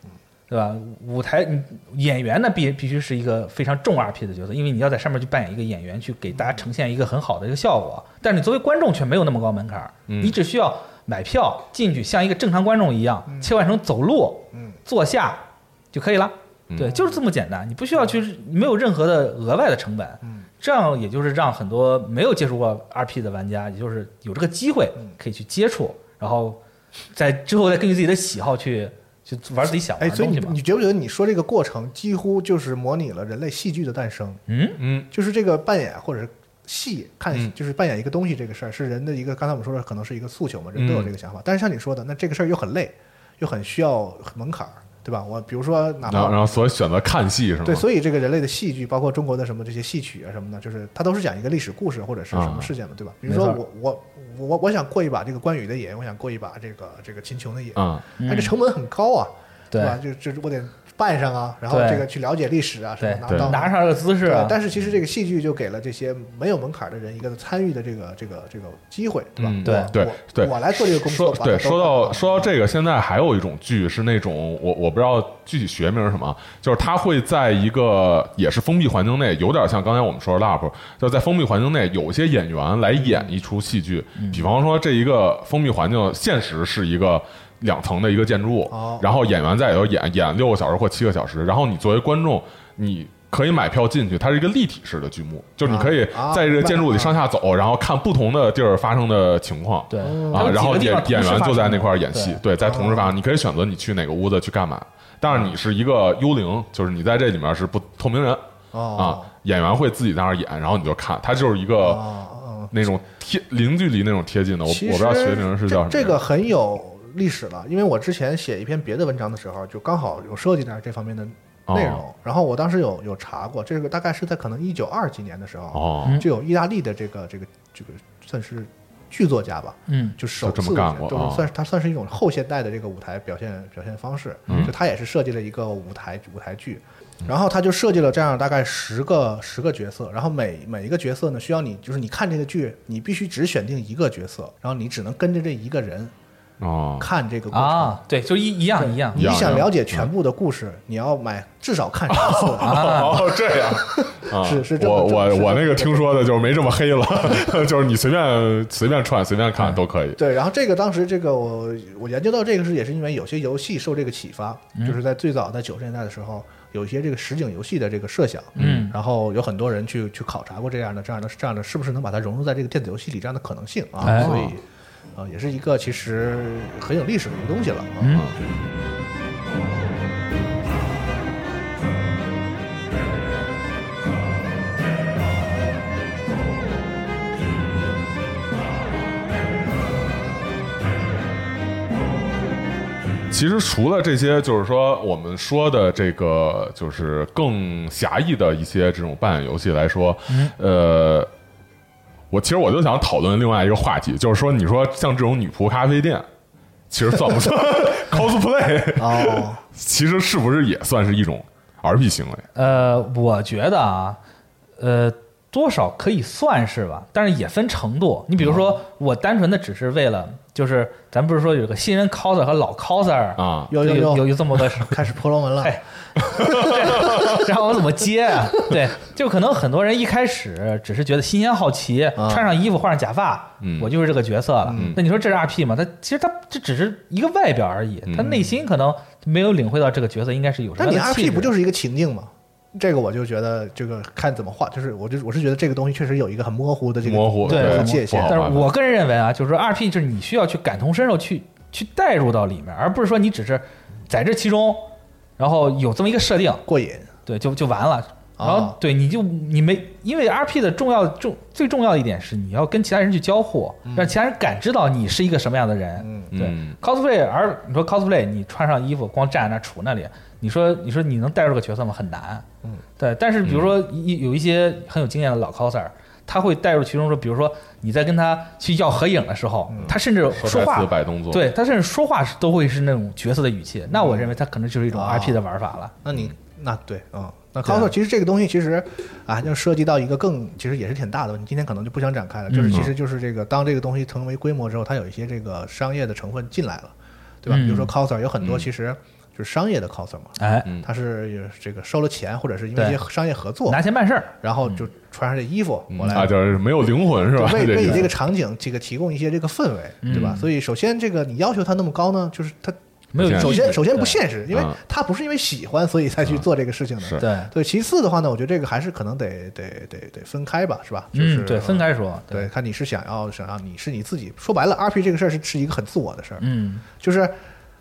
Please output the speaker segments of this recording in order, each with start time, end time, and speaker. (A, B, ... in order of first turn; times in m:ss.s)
0:00.5-0:26.6 A
0:10.1-0:10.4 B
0:16.7-0:17.0 B
0:16.9-0:17.2 C
0:27.1-0:30.6 A
0:29.7-0:34.4 C
0:34.5-0:34.8 A
0:34.8-0:35.1 B
0:35.1-0:46.6 C
0:40.8-0:41.1 B
0:46.0-0:47.9 B
0:47.6-1:12.5 C
0:52.3-0:52.7 B
0:53.3-0:53.6 A
0:57.8-0:58.0 B
0:58.2-0:58.5 A
0:59.7-1:00.0 A
1:01.7-1:02.1 A
1:03.0-1:04.6 A
1:03.3-1:03.6 B
1:09.4-1:48.4 B
1:09.6-1:09.9 A
1:23.0-1:23.3 C
1:24.2-1:24.5 A
1:28.7-1:29.0 C
1:35.6-1:37.2 C
1:39.9-1:42.4 A
1:40.0-1:40.7 C
1:42.6-1:43.1 C
1:48.7-1:49.3 C
1:49.0-1:52.1 B
1:51.8-1:52.8 C
1:52.7-1:56.2 B
1:54.7-2:26.1 C
2:01.7-2:02.0 B
2:05.7-2:06.2 B
2:09.9-2:10.2 A
2:10.4-2:11.5 B
2:14.5-2:14.7 B
2:26.6-2:27.1 B
2:27.0-2:28.0 C
2:27.5-2:29.7 A
2:28.8-2:36.4 C
2:29.2-2:30.1 B
2:32.1-2:40.2 B
2:32.6-2:33.2 A
2:40.2-2:54.6 C
2:48.6-2:48.9 A
2:48.6-2:48.9 B
2:54.0-2:54.5 A
2:54.1-2:54.6 B
2:55.2-2:58.2 C
2:58.0-2:58.3 A
2:58.1-2:58.4 B
3:13.3-3:21.3 B
3:20.3-3:20.5 A
3:22.3-3:26.3 B
3:26.9-3:32.5 B
3:29.0-3:29.6 C
3:32.6-3:34.2 A
3:34.8-3:45.0 A
3:43.4-3:43.7 B
3:43.7-3:47.4 C
3:45.6-4:01.5 A
3:46.4-3:47.4 B
3:52.2-3:52.5 C
3:53.6-3:53.9 B
3:54.6-3:55.0 C
3:54.7-3:55.0 B
3:58.1-3:58.3 B
3:58.2-3:58.6 C
4:00.8-4:08.5 C
4:07.0-4:08.7 B
4:07.5-4:16.6 A
4:16.7-4:17.1 C
4:17.3-4:32.5 A
4:18.4-4:18.8 C
4:23.9-4:24.2 C
4:26.0-4:26.3 C
4:26.3-4:26.8 B
4:33.0-4:46.0 A
4:33.4-4:33.8 B
4:39.7-4:40.0 C
4:39.8-4:41.5 B
4:43.9-4:44.3 C
4:44.9-4:45.4 C
4:46.0-5:06.3 C
4:47.6-4:47.9 A
4:52.5-4:52.9 A
4:57.5-4:57.9 A
4:58.4-4:58.7 B
5:00.4-5:00.7 A
5:02.8-5:03.0 A
5:03.7-5:04.8 A
5:05.9-5:08.1 B
5:07.3-5:27.4 C
5:10.0-5:10.5 A
5:10.1-5:10.4 B
5:13.1-5:14.2 A
5:13.2-5:13.8 B
5:14.5-5:14.8 B
5:17.0-5:17.3 B
5:17.2-5:17.5 A
5:21.1-5:22.5 A
5:26.4-5:26.8 A